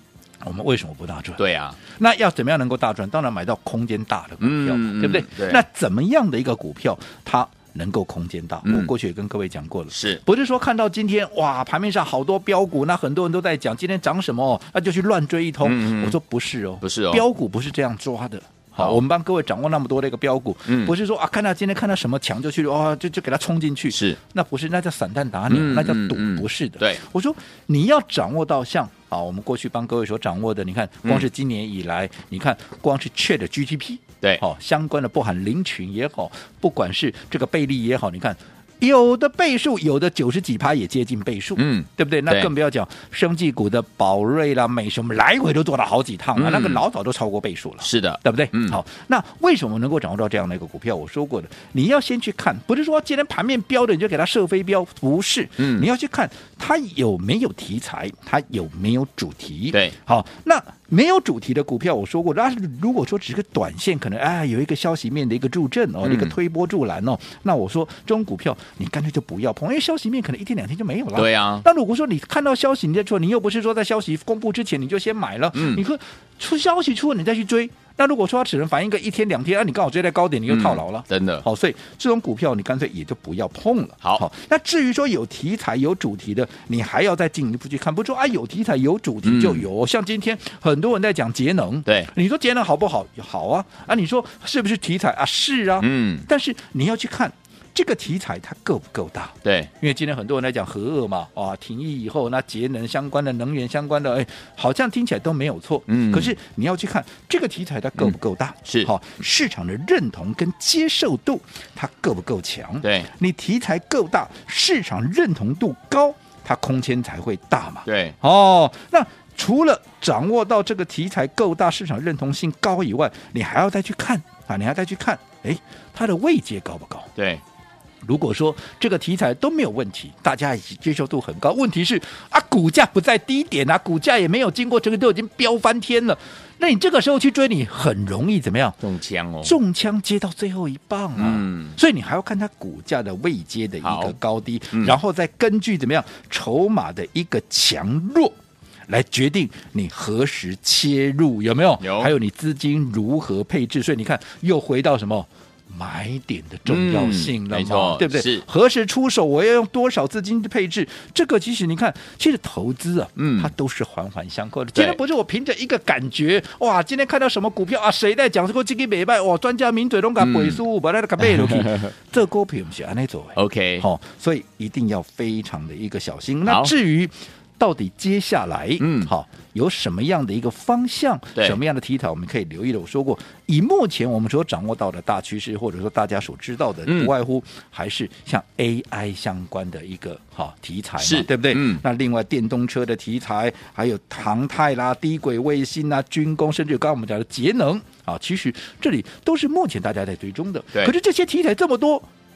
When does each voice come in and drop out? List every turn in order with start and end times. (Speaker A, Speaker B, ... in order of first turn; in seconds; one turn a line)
Speaker A: 0.4-1.4
Speaker B: 1.4-1.8
Speaker A: 1.9-127.1
Speaker B: 4.4-5.6
Speaker B: 8.6-8.9
Speaker B: 9.9-10.2
Speaker B: 15.6-16.2
Speaker B: 16.8-17.2
Speaker B: 18.8-19.0
Speaker B: 20.7-20.9
Speaker B: 23.9-24.2
Speaker B: 25.5-27.0
Speaker B: 41.6-42.5
Speaker B: 46.4-46.8
Speaker B: 47.8-48.8
Speaker B: 55.6-55.9
Speaker B: 66.0-66.3
Speaker B: 71.1-71.7
Speaker B: 75.5-75.8
Speaker B: 80.5-81.5
Speaker B: 89.2-89.7
Speaker B: 91.8-92.1
Speaker B: 95.8-96.3
Speaker B: 99.4-99.7
Speaker B: 105.9-106.3
Speaker B: 108.0-108.9
Speaker B: 112.8-113.1
Speaker B: 117.8-118.1
Speaker B: 127.2-127.4
Speaker A: 128.0-138.8
Speaker B: 138.8-139.6
Speaker A: 139.4-148.3
Speaker B: 141.2-141.8
Speaker B: 143.8-144.2
Speaker A: 148.9-202.1
Speaker B: 151.8-152.1
Speaker B: 156.7-158.4
Speaker B: 163.2-163.5
Speaker B: 170.2-170.6
Speaker B: 171.2-171.9
Speaker B: 173.3-173.8
Speaker B: 176.4-176.7
Speaker B: 178.8-179.1
Speaker B: 186.9-187.1
Speaker B: 191.0-191.8